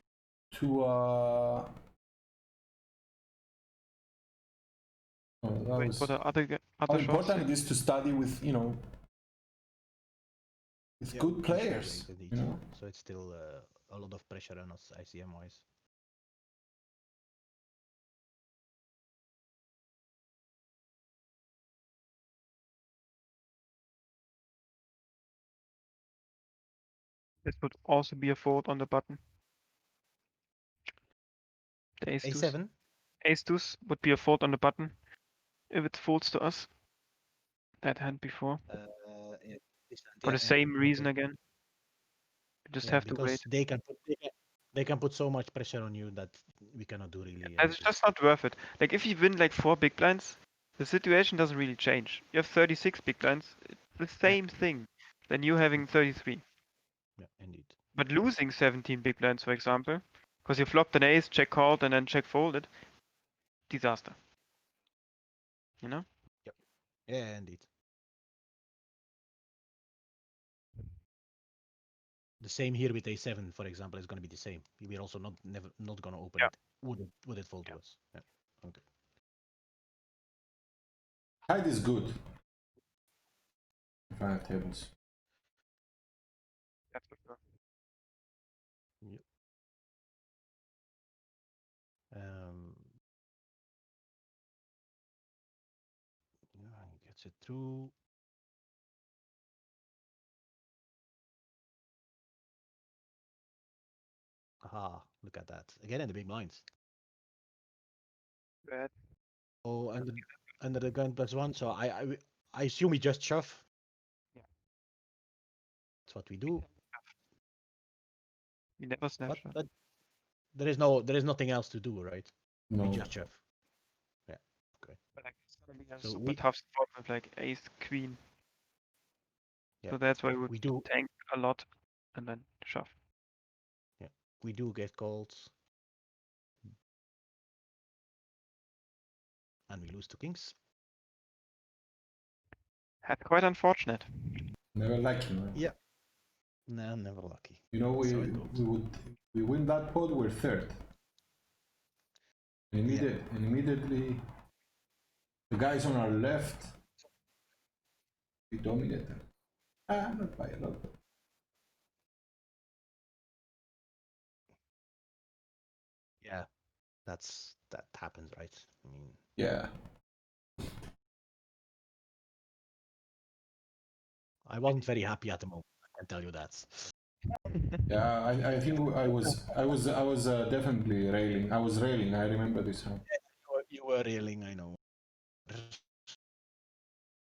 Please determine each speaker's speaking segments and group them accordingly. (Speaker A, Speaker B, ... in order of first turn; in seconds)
Speaker A: 0.5-1.7, 5.4-6.2, 6.9-8.8, 11.0-12.6, 81.5-82.2, 84.1-84.9, 122.7-123.1, 144.7-145.7, 147.7-150.8, 152.7-154.2, 155.5-156.8, 158.5-159.2, 159.9-160.9, 169.4-169.7, 177.9-183.0
Speaker B: 5.7-7.5, 27.4-29.2, 32.0-32.6, 33.2-35.1, 35.7-36.8, 37.8-38.6, 40.2-41.4, 42.7-43.5, 47.4-56.5, 57.9-62.7, 63.7-64.2, 65.8-66.0, 86.9-87.4, 108.7-108.9, 116.5-117.1, 118.8-119.6, 125.2-128.2, 129.9-132.9, 143.0-144.4, 177.3-177.8
Speaker C: 11.1-15.7, 32.2-32.8, 38.7-41.2, 42.8-47.9, 57.2-57.8, 67.1-67.7, 72.4-78.9, 92.1-92.9, 96.5-97.9, 104.6-106.7, 109.7-113.7, 116.1-116.7, 119.2-119.7, 120.5-123.4, 124.3-125.0, 126.0-126.4, 129.8-130.9, 134.0-135.6, 139.7-140.6, 146.7-148.6, 166.2-166.5, 167.0-169.2, 174.4-176.8, 183.1-184.8, 185.5-185.9